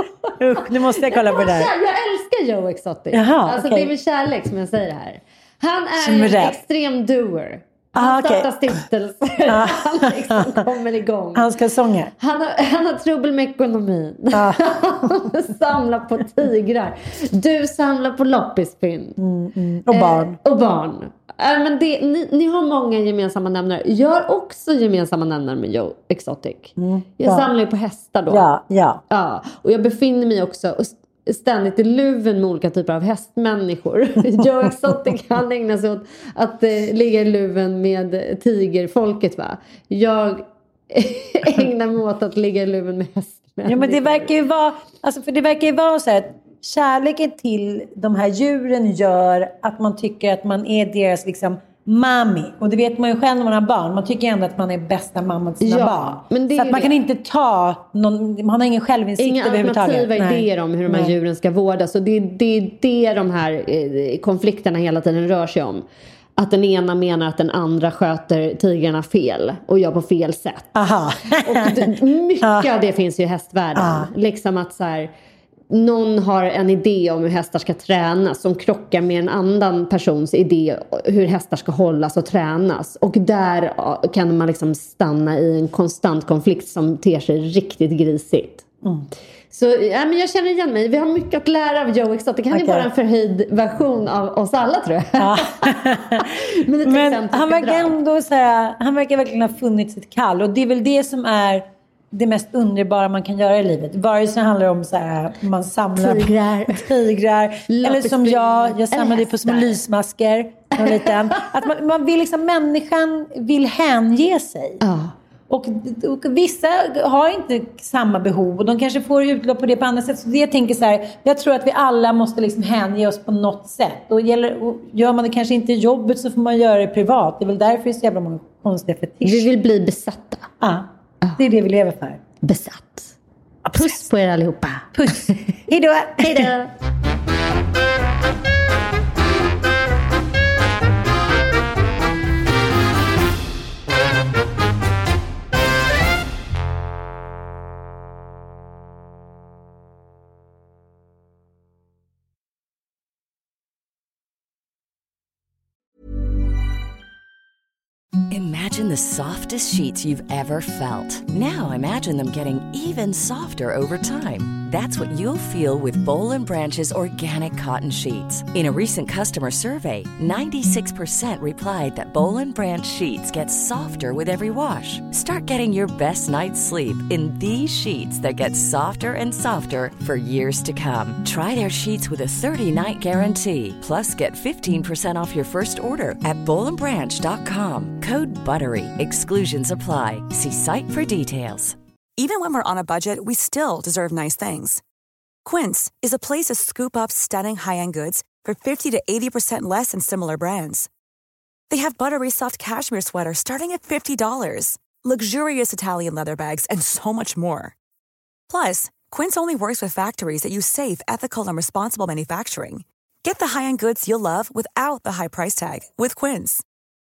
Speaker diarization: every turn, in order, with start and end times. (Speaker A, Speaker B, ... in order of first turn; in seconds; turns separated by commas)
Speaker A: 0.4-1.7, Speaker B: 1.0-11.5, Speaker A: 3.1-3.9, Speaker A: 6.0-6.6, Speaker A: 7.9-8.7, Speaker A: 9.5-10.6, Speaker A: 11.3-12.1, Speaker B: 12.2-19.2, Speaker A: 14.3-15.2, Speaker A: 19.2-20.4, Speaker B: 19.9-28.4, Speaker A: 26.8-27.5, Speaker A: 28.3-29.0, Speaker B: 29.1-44.3, Speaker A: 43.6-61.1, Speaker B: 55.6-56.9, Speaker B: 59.2-65.8, Speaker B: 66.4-70.7, Speaker A: 70.7-71.9, Speaker B: 71.3-75.1, Speaker A: 72.4-72.7, Speaker A: 73.8-74.1, Speaker B: 75.7-88.7, Speaker B: 89.5-97.9, Speaker A: 92.5-92.9, Speaker A: 95.2-96.3, Speaker A: 96.8-114.8, Speaker B: 106.0-106.9, Speaker B: 107.7-109.8, Speaker B: 110.8-111.4, Speaker B: 114.8-115.1, Speaker A: 115.5-129.5, Speaker B: 129.2-130.5, Speaker A: 130.6-132.2, Speaker B: 132.4-133.1, Speaker A: 133.6-134.0, Speaker B: 133.7-135.5, Speaker A: 134.9-136.5, Speaker B: 136.2-136.7, Speaker C: 158.3-191.8, Speaker D: 192.2-194.8, Speaker D: 195.4-200.9, Speaker D: 201.7-207.7, Speaker D: 208.5-216.6